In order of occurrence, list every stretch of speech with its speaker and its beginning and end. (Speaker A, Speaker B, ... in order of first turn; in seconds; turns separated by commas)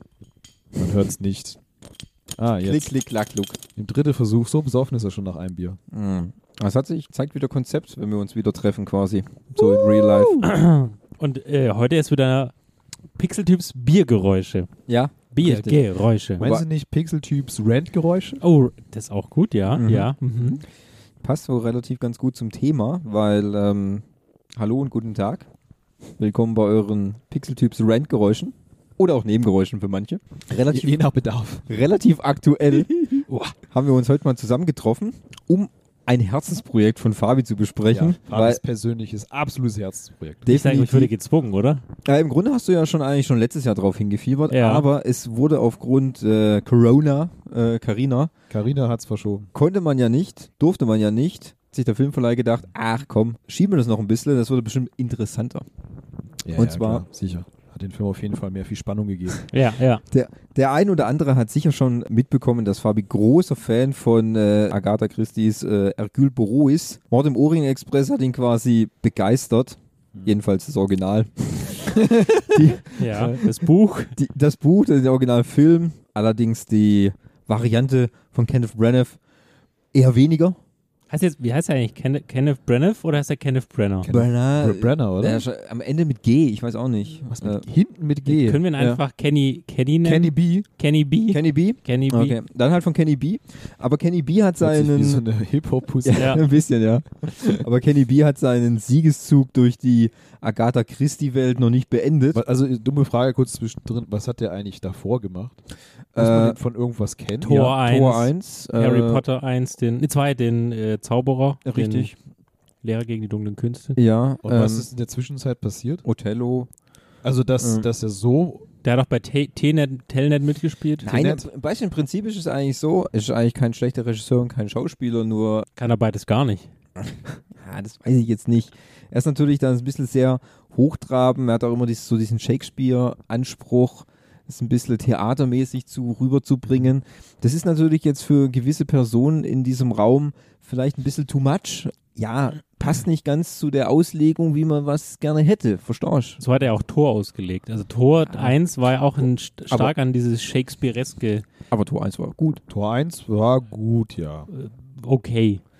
Speaker A: 0.8-1.6, Speaker A: 2.4-2.9, Speaker B: 2.6-3.6, Speaker A: 3.8-5.8, Speaker B: 5.9-10.5, Speaker C: 10.3-12.5, Speaker C: 13.2-14.7, Speaker B: 14.9-15.8, Speaker C: 15.3-16.4, Speaker B: 16.4-16.6, Speaker A: 16.4-18.4, Speaker C: 18.4-20.6, Speaker B: 19.8-20.5, Speaker B: 21.2-24.0, Speaker B: 24.6-25.5, Speaker B: 26.2-31.0, Speaker A: 30.7-31.6, Speaker B: 31.7-38.6, Speaker C: 33.3-33.5, Speaker A: 37.9-40.5, Speaker B: 40.5-41.1, Speaker C: 40.5-41.8, Speaker B: 42.0-48.3, Speaker C: 44.5-44.8, Speaker A: 48.5-49.5, Speaker B: 49.5-55.6, Speaker A: 56.4-59.5, Speaker B: 56.5-57.0, Speaker C: 59.5-60.0, Speaker B: 60.1-73.3, Speaker A: 72.0-72.3, Speaker C: 72.9-74.1, Speaker B: 74.2-79.2, Speaker B: 79.9-80.6, Speaker C: 81.1-84.1, Speaker A: 84.0-85.4, Speaker B: 84.1-87.6, Speaker A: 87.3-88.6, Speaker C: 88.3-92.3, Speaker A: 90.0-90.7, Speaker B: 91.3-95.2, Speaker A: 94.6-96.4, Speaker B: 96.0-102.4, Speaker C: 96.2-96.4, Speaker A: 102.3-105.6, Speaker B: 106.1-106.6, Speaker A: 106.2-107.8, Speaker C: 107.4-112.1, Speaker B: 107.8-109.2, Speaker B: 111.6-112.2, Speaker C: 112.8-114.0, Speaker B: 114.0-114.9, Speaker A: 114.4-116.0, Speaker B: 116.0-116.7, Speaker A: 117.2-118.6, Speaker B: 117.6-117.8, Speaker C: 118.8-121.1, Speaker B: 121.0-125.6, Speaker A: 121.0-121.5, Speaker C: 125.8-126.7, Speaker B: 127.0-146.4, Speaker C: 146.4-151.4, Speaker B: 148.3-148.5, Speaker B: 151.7-152.6, Speaker A: 152.7-154.5, Speaker C: 154.5-155.6